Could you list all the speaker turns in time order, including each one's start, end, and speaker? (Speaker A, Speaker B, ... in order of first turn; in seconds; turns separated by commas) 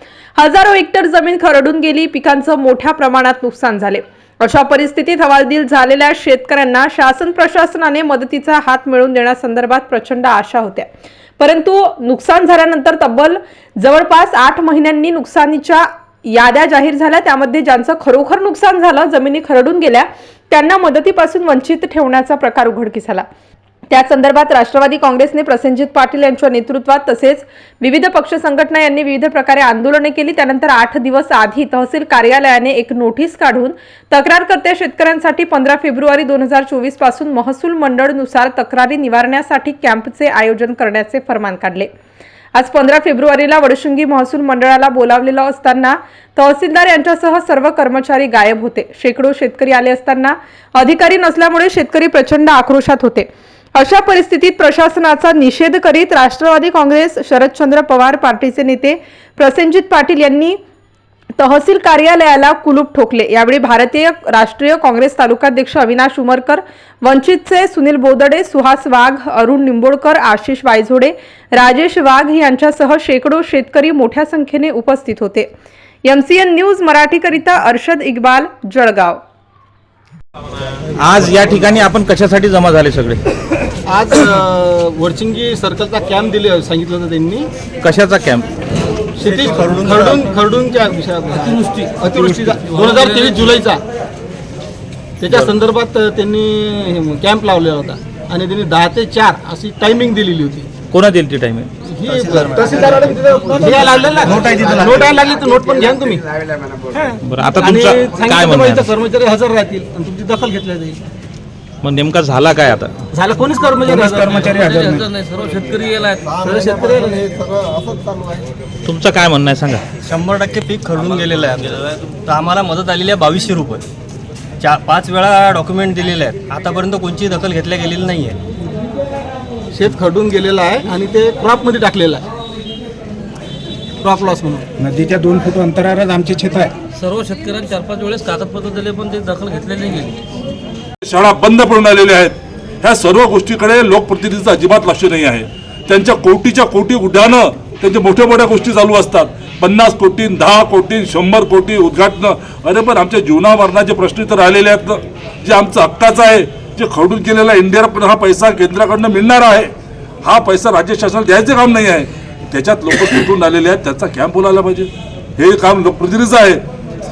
Speaker A: 0.4-10.9, Speaker A: 11.4-23.2, Speaker A: 23.9-41.9, Speaker A: 42.5-60.6, Speaker A: 61.4-75.5, Speaker A: 76.0-79.2, Speaker B: 81.0-83.2, Speaker C: 83.8-87.5, Speaker B: 87.8-88.5, Speaker C: 89.2-93.8, Speaker D: 89.5-89.9, Speaker E: 91.5-93.5, Speaker C: 95.2-100.7, Speaker B: 100.9-101.7, Speaker C: 101.9-106.2, Speaker F: 102.7-103.8, Speaker F: 104.3-105.0, Speaker C: 106.8-111.0, Speaker B: 107.3-108.9, Speaker B: 111.8-112.9, Speaker C: 113.1-114.4, Speaker F: 113.8-115.0, Speaker E: 114.5-116.6, Speaker C: 116.3-117.9, Speaker B: 118.8-119.8, Speaker D: 120.0-123.8, Speaker D: 124.6-128.4, Speaker C: 129.7-132.3, Speaker C: 134.0-134.7, Speaker F: 134.8-136.7, Speaker E: 137.0-140.2, Speaker G: 141.0-159.7, Speaker G: 160.2-166.6